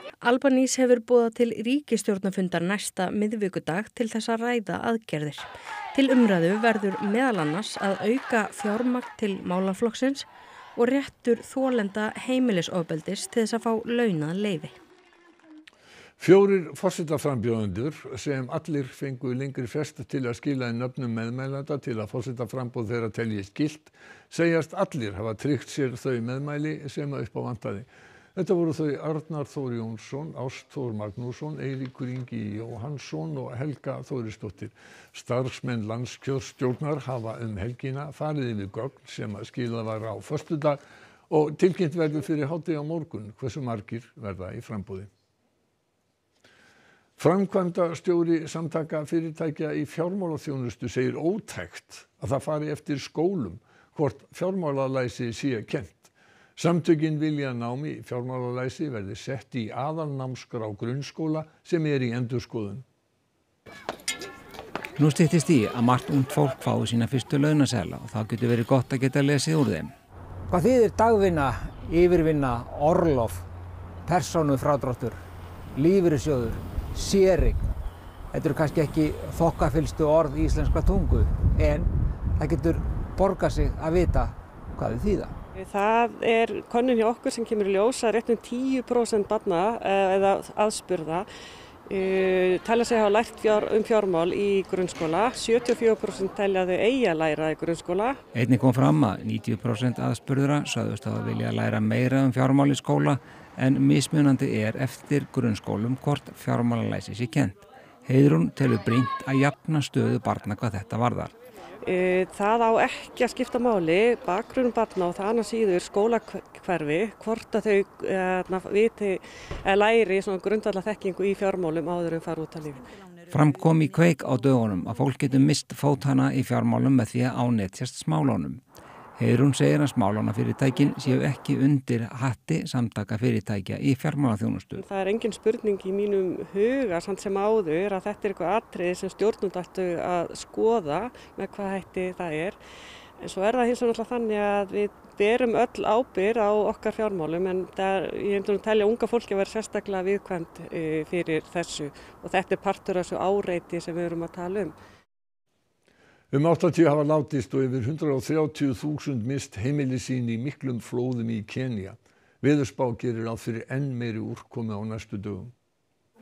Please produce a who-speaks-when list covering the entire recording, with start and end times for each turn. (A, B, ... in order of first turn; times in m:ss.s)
0:00.2-0:14.8 A
0:16.2-0:45.1 B
0:47.2-1:02.8 B
1:05.0-1:09.9 C
1:10.5-1:13.4 D
1:14.1-1:15.2 D
1:15.8-1:17.6 D
1:18.3-1:25.3 D
1:25.6-1:31.3 E
1:31.9-1:38.2 E
1:38.3-1:51.3 C
1:51.8-2:02.9 E
2:03.3-2:08.6 C
2:09.2-2:14.8 C
2:14.8-2:22.6 E
2:23.2-2:34.7 E
2:36.3-2:45.5 B